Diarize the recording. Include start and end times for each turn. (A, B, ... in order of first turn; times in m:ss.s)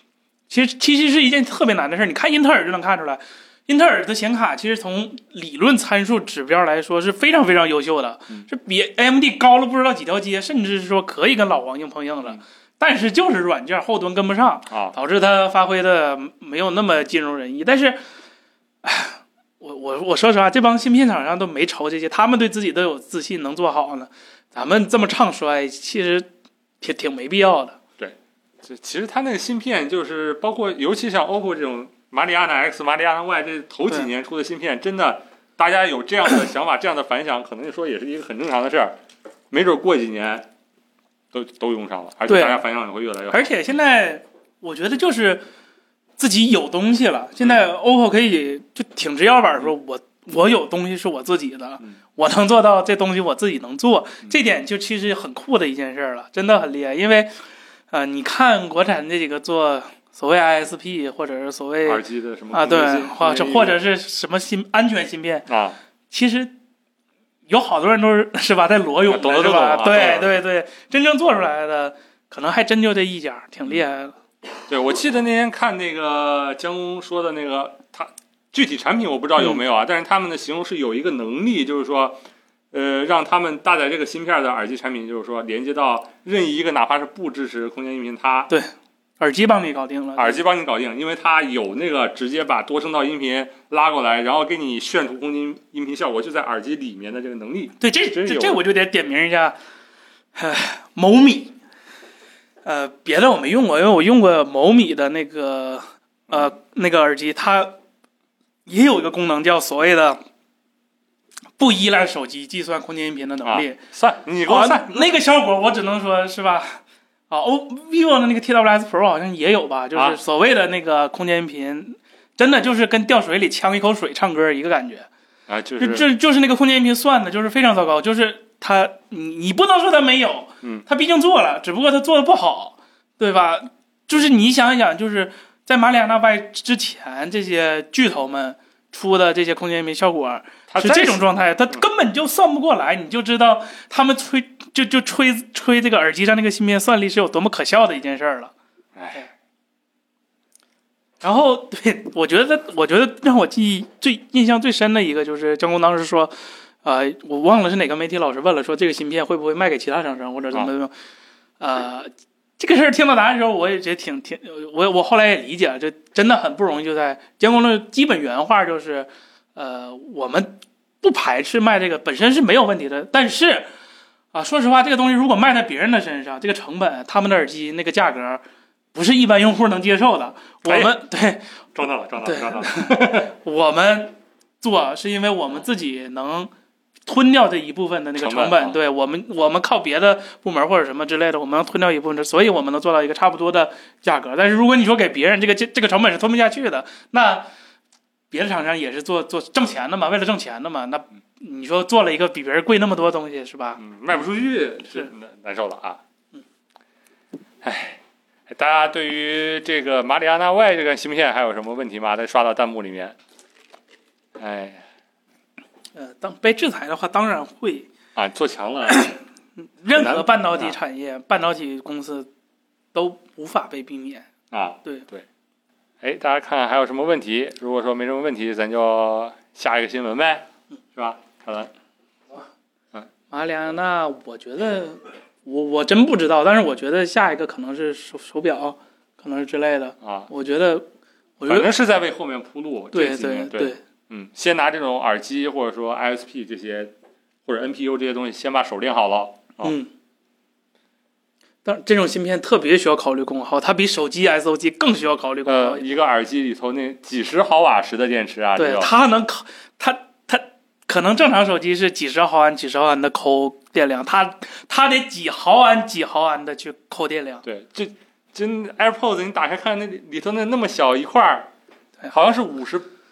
0:00.5-0:18.0 A
0:18.8-0:26.3 A
0:26.8-0:27.8 A
0:28.0-0:39.0 B
0:39.5-0:40.5 B
0:41.3-0:43.5 B
0:42.3-0:42.6 A
0:43.3-0:45.4 A
0:46.2-0:57.3 A
0:57.9-1:02.0 A
1:01.8-1:03.8 B
1:02.5-1:05.5 A
1:05.5-1:05.8 B
1:06.1-1:06.5 A
1:07.5-1:14.2 A
1:09.1-1:10.4 B
1:14.7-1:22.2 B
1:22.7-1:28.5 B
1:28.5-1:30.4 A
1:30.2-1:38.6 B
1:37.8-1:39.6 A
1:40.4-1:41.6 A
1:42.6-1:47.8 A
1:48.7-1:50.2 A
1:51.6-1:53.8 A
1:53.4-1:55.2 B
1:54.4-2:05.1 A
2:05.5-2:06.1 B
2:05.8-2:28.5 A
2:20.7-2:21.8 B
2:29.0-2:29.2 B
2:31.2-2:40.9 A
2:41.6-2:53.7 A
2:54.3-2:58.4 A
2:58.9-3:01.4 A
3:00.7-3:01.0 B
3:01.8-3:03.3 B
3:02.2-3:06.5 A
3:07.1-3:17.5 A
3:08.2-3:08.8 B
3:18.3-3:23.8 A
3:23.8-3:26.0 B
3:27.6-3:33.2 B
3:34.4-3:34.8 B
3:36.0-3:37.9 A
3:38.2-3:39.1 B
3:38.9-3:42.3 A
3:39.9-3:40.8 B
3:42.9-3:44.3 A
3:44.5-3:45.2 B
3:46.0-3:50.4 B
3:51.0-3:51.7 B
3:53.3-4:00.9 A
4:00.0-4:00.3 B
4:01.4-4:01.7 A
4:01.5-4:06.9 B
4:02.9-4:03.8 A
4:07.5-4:09.7 B
4:09.6-4:09.9 A
4:11.6-4:15.8 A
4:15.5-4:18.9 B
4:18.6-4:27.4 A
4:27.4-4:31.5 B
4:32.1-4:32.9 B